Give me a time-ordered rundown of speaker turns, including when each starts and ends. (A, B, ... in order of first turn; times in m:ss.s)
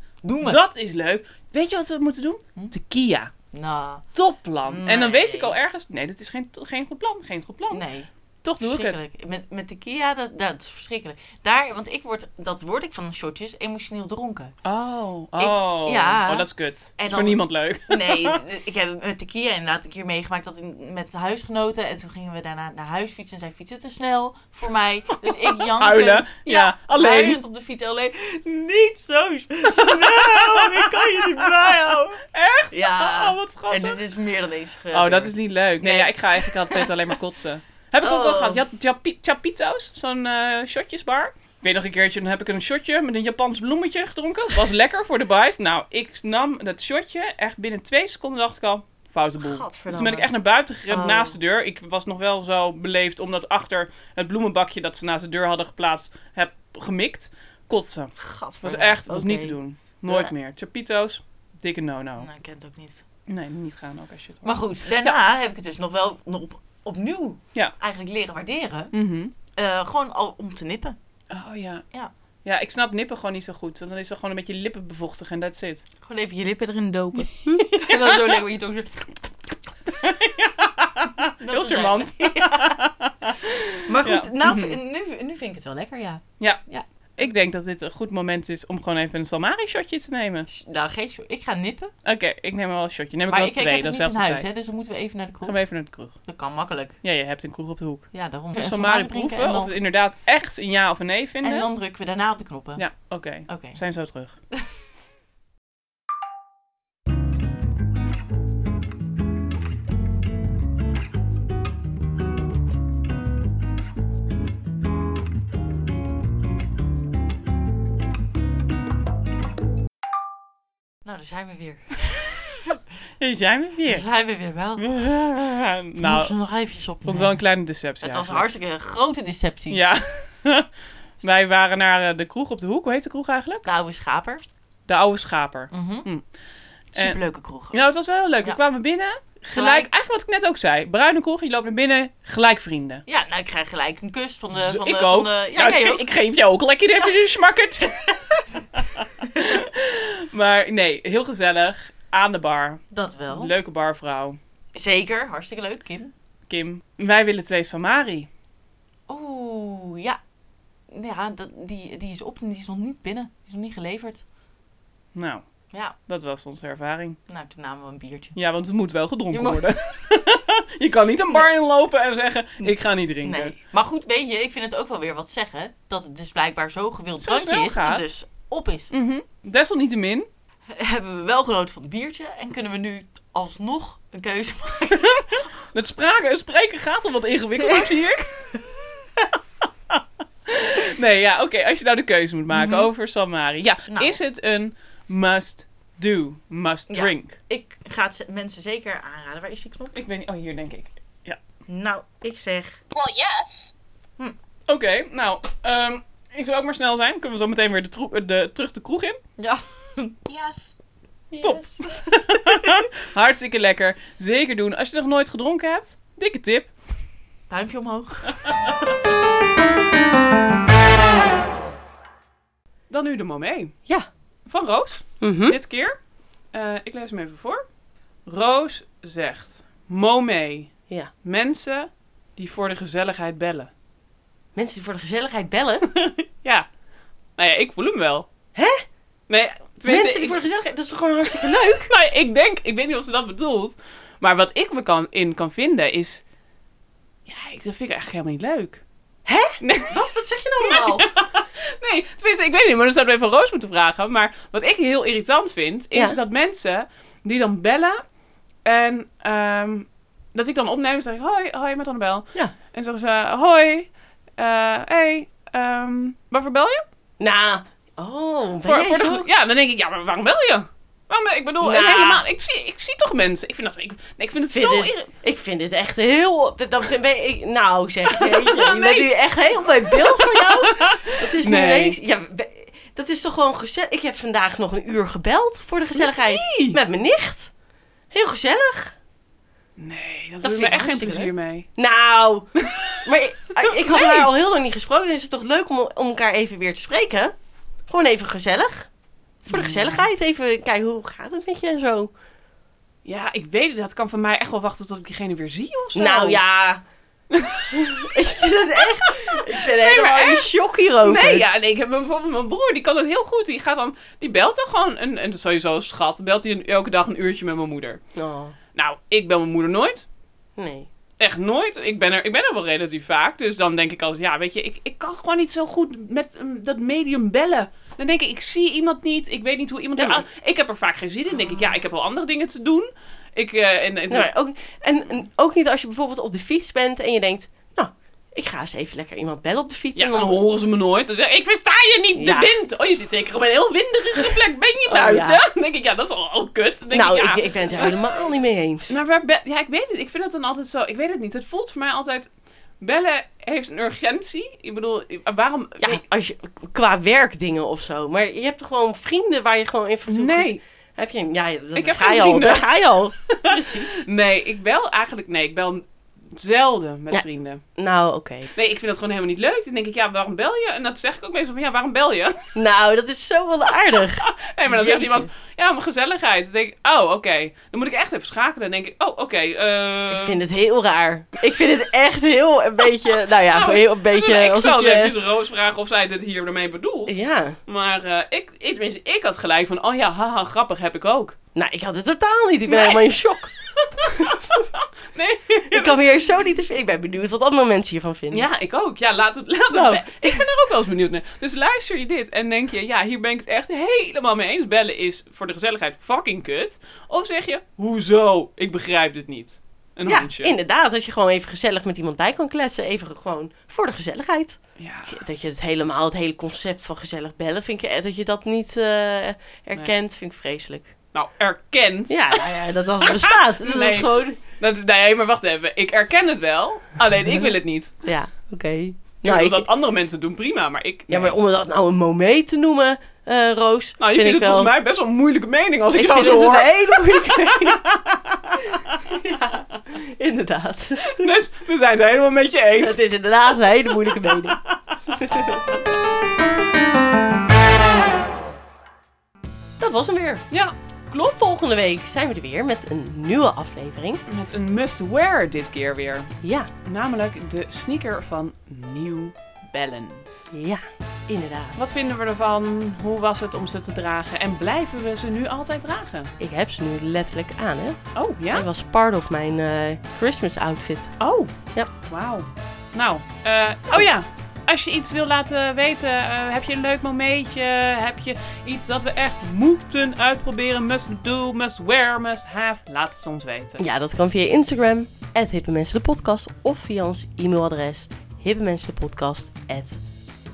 0:00.2-0:00.6 A
0:00.4-0:03.3 B
0:03.5-0:04.0 A
0:04.1-0:07.8 B
0:04.6-0:05.6 A
0:07.7-0:14.5 A
0:08.4-0:09.0 B
0:14.6-0:18.4 B
0:15.4-0:36.9 A
0:25.3-0:27.4 B
0:29.8-0:34.0 B
0:34.9-1:02.3 B
0:38.0-0:38.7 A
0:49.4-0:50.3 A
0:50.9-0:51.4 A
0:58.2-0:59.6 A
1:00.1-1:00.3 A
1:02.2-1:03.0 A
1:03.3-1:05.2 B
1:04.4-1:08.9 A
1:08.9-1:09.3 B
1:09.5-1:11.0 A
1:11.3-1:11.8 B
1:12.4-1:15.8 B
1:16.0-1:19.6 A
1:17.7-1:18.3 B
1:19.9-1:24.8 B
1:21.4-1:22.8 A
1:23.8-1:27.3 A
1:26.4-1:26.6 B
1:27.2-1:30.5 B
1:30.5-1:31.9 A
1:32.0-1:34.5 B
1:33.3-1:35.6 A
1:35.4-1:36.2 B
1:36.2-1:37.0 A
1:37.0-1:41.7 B
1:38.1-1:39.8 A
1:41.4-1:42.8 A
1:42.8-1:44.4 B
1:43.5-1:43.8 A
2:01.0-2:02.6 A
2:03.2-2:04.0 B
2:03.9-2:05.1 A
2:04.8-2:06.3 B
2:06.0-2:07.4 A
2:07.0-2:08.5 B
2:08.0-2:09.8 A
2:09.7-2:10.7 B
2:11.2-2:13.7 B
2:13.6-2:14.4 A
2:14.9-2:16.2 B
2:15.7-2:16.1 A
2:16.9-2:17.2 B
2:16.9-2:17.8 A
2:17.7-2:23.0 B
2:19.5-2:19.9 A
2:23.0-2:26.0 A
2:24.5-2:28.0 B
2:27.8-2:28.4 A
2:28.7-2:34.4 B
2:29.3-2:29.6 A
2:32.9-2:33.5 A
2:34.7-2:36.1 A
2:36.5-2:38.3 B
2:39.1-2:40.2 A
2:40.9-2:44.2 A
2:45.1-2:45.4 B
2:46.0-2:47.2 B
2:47.3-2:48.4 A
2:48.3-2:53.6 B
2:49.3-2:50.0 A
2:52.6-2:58.9 A
2:57.2-2:58.1 B
2:58.9-3:00.3 B
3:00.7-3:05.5 A
3:04.9-3:08.6 B
3:09.9-3:17.4 B
3:12.5-3:12.9 A
3:13.9-3:14.2 A
3:16.9-3:20.0 A
3:19.9-3:21.4 B
3:21.7-3:22.8 A
3:24.7-3:29.2 B
3:29.4-3:30.2 A
3:31.3-3:32.8 A
3:31.4-3:36.7 B
3:37.5-3:39.1 A
3:38.4-3:38.9 B
3:42.9-3:43.8 B
3:44.5-3:46.0 B
3:45.2-3:45.6 C
3:46.5-3:47.6 B
3:48.2-3:53.7 B
3:54.5-3:55.9 C
3:55.9-3:56.6 B
3:57.4-3:58.3 B
3:58.5-3:58.8 C
3:59.3-4:00.4 B
3:59.8-4:01.9 C
4:01.5-4:06.2 B
4:07.2-4:08.8 B
4:09.2-4:09.6 C
4:09.6-4:10.0 B
4:09.9-4:11.1 A
4:10.6-4:18.0 B
4:18.6-4:26.8 B
4:27.2-4:29.3 C
4:28.6-4:35.1 B
4:31.6-4:32.2 C
4:34.5-4:47.5 C
4:38.1-4:39.0 B
4:40.2-4:42.0 B
4:46.0-4:46.8 B
4:48.1-4:49.0 C
4:49.8-4:51.7 B
4:50.4-4:57.3 C
4:52.6-4:53.0 B
4:53.7-4:54.3 B
4:57.9-4:58.9 C
4:59.4-5:02.1 C
4:59.5-5:00.1 B
5:03.0-5:06.4 B
5:05.9-5:06.8 C
5:07.3-5:08.1 B
5:07.7-5:11.4 C
5:08.8-5:18.0 B
5:18.1-5:18.6 C
5:18.7-5:20.1 B
5:20.6-5:20.9 C
5:21.2-5:34.3 B
5:30.0-5:30.2 C
5:34.1-5:40.4 C
5:39.9-5:48.2 B
5:42.1-5:42.5 C
5:44.9-5:45.4 C
5:46.9-5:49.0 C
5:48.9-5:52.3 B
5:52.8-5:56.0 B
5:55.8-6:04.0 C
6:00.1-6:00.6 B
6:01.7-6:02.7 B
6:03.3-6:07.6 B
6:07.1-6:08.5 C
6:08.5-6:12.4 B
6:12.5-6:15.3 C
6:14.2-6:20.4 B
6:20.1-6:25.2 C
6:23.5-6:31.4 B
6:27.1-6:27.6 C
6:31.5-6:34.6 C
6:32.7-6:33.0 B
6:33.8-6:36.0 B
6:35.7-6:38.5 C
6:38.3-6:50.5 B
6:39.7-6:40.5 C
6:50.0-7:00.9 C
6:54.8-6:55.2 B
7:01.1-7:08.0 B
7:02.1-7:04.4 C
7:08.0-7:09.7 C
7:09.2-7:11.4 B
7:11.1-7:14.7 C
7:14.0-7:19.1 B
7:15.9-7:17.8 C
7:19.1-7:21.3 C
7:21.0-7:25.8 B
7:22.8-7:25.6 C
7:29.8-7:30.4 C
7:30.5-7:31.4 B
7:31.3-7:34.2 C
7:34.3-7:40.6 B
7:36.4-7:36.7 C
7:40.5-7:41.9 C
7:41.8-7:46.3 B
7:46.4-7:51.9 C
7:48.1-7:48.6 B
7:51.2-8:03.8 B
8:03.8-8:10.0 C